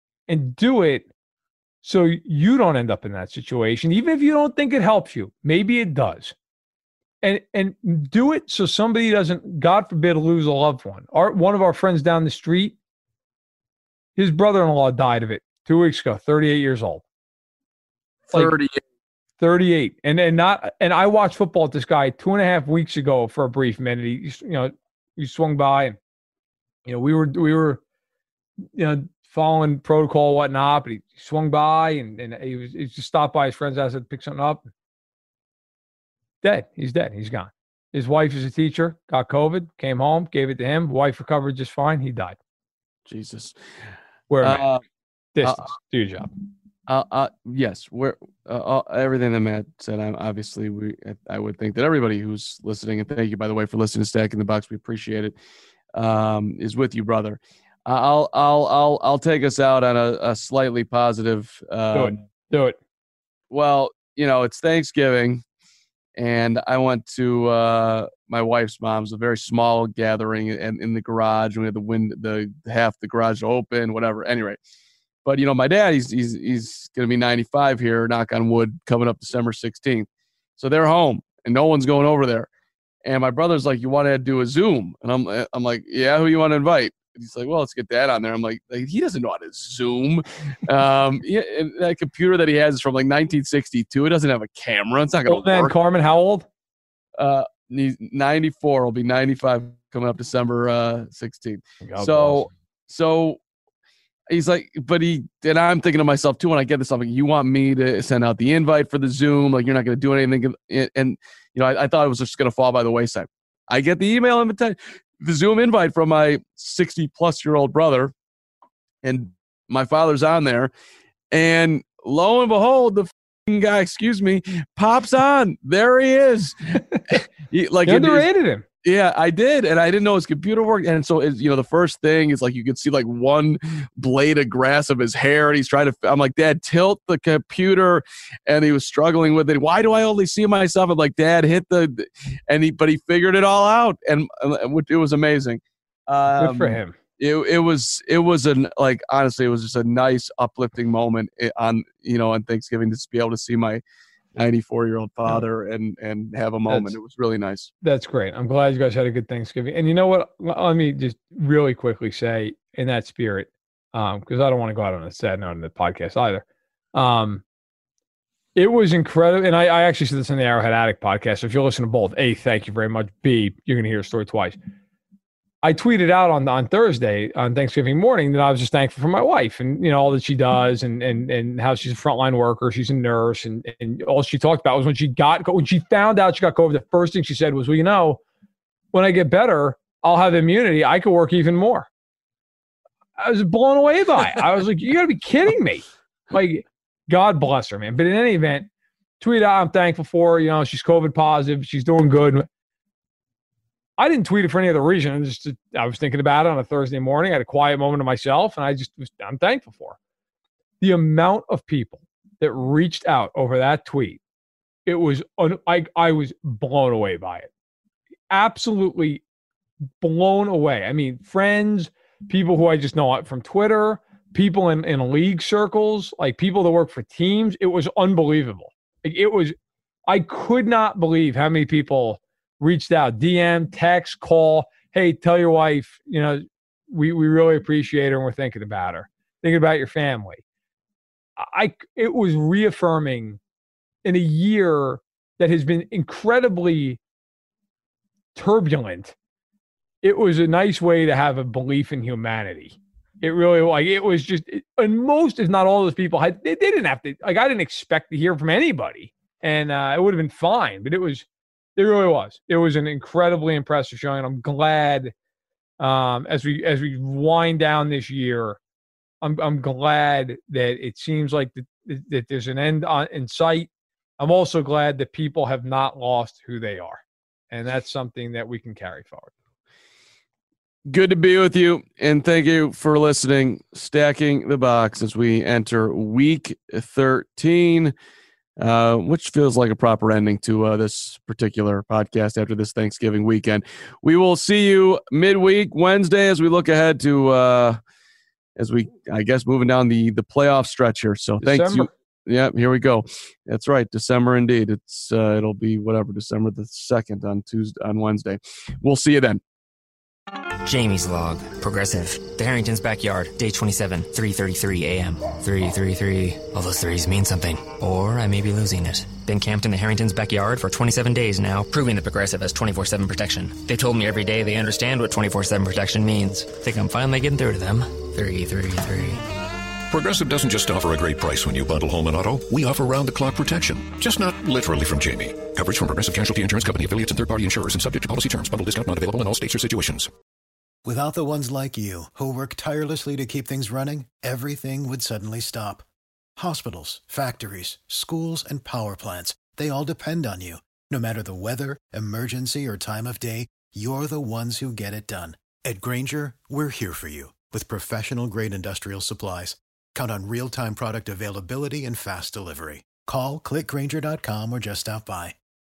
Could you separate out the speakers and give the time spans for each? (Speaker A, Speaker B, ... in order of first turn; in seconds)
Speaker A: 0.3-1.1, 1.8-6.3, 7.2-12.8, 14.2-17.0, 19.4-26.0, 26.9-27.8, 28.8-34.7, 36.4-42.4, 44.3-44.6, 45.4-46.3, 61.9-62.8, 95.3-96.5, 101.8-102.5, 126.9-127.2, 127.8-128.6, 146.4-146.9, 156.7-156.9, 157.8-167.4, 168.6-174.6, 175.6-188.2, 188.9-191.9, 193.2-198.7, 199.2-202.5, 204.0-210.0, 210.8-214.2, 214.8-217.5, 218.3-219.2, 220.0-229.5, 230.1-240.4, 241.4-243.4, 244.0-247.0, 248.3-249.1, 250.0-265.1, 265.8-268.6, 269.2-279.3, 301.4-301.9
Speaker B: 18.3-18.8, 43.1-43.5, 44.4-44.8, 45.4-45.7, 46.9-55.4, 55.9-62.2, 63.5-65.4, 66.2-74.6, 75.2-80.1, 80.6-82.5, 83.0-95.7, 97.2-103.4, 104.3-118.1, 119.0-120.7, 121.3-126.6, 127.1-128.3, 128.8-153.8, 154.3-157.7, 280.9-287.9, 288.6-297.8, 298.6-309.4
Speaker C: 310.6-329.2
Speaker D: 329.9-340.1
Speaker E: 340.8-345.9, 346.4-365.4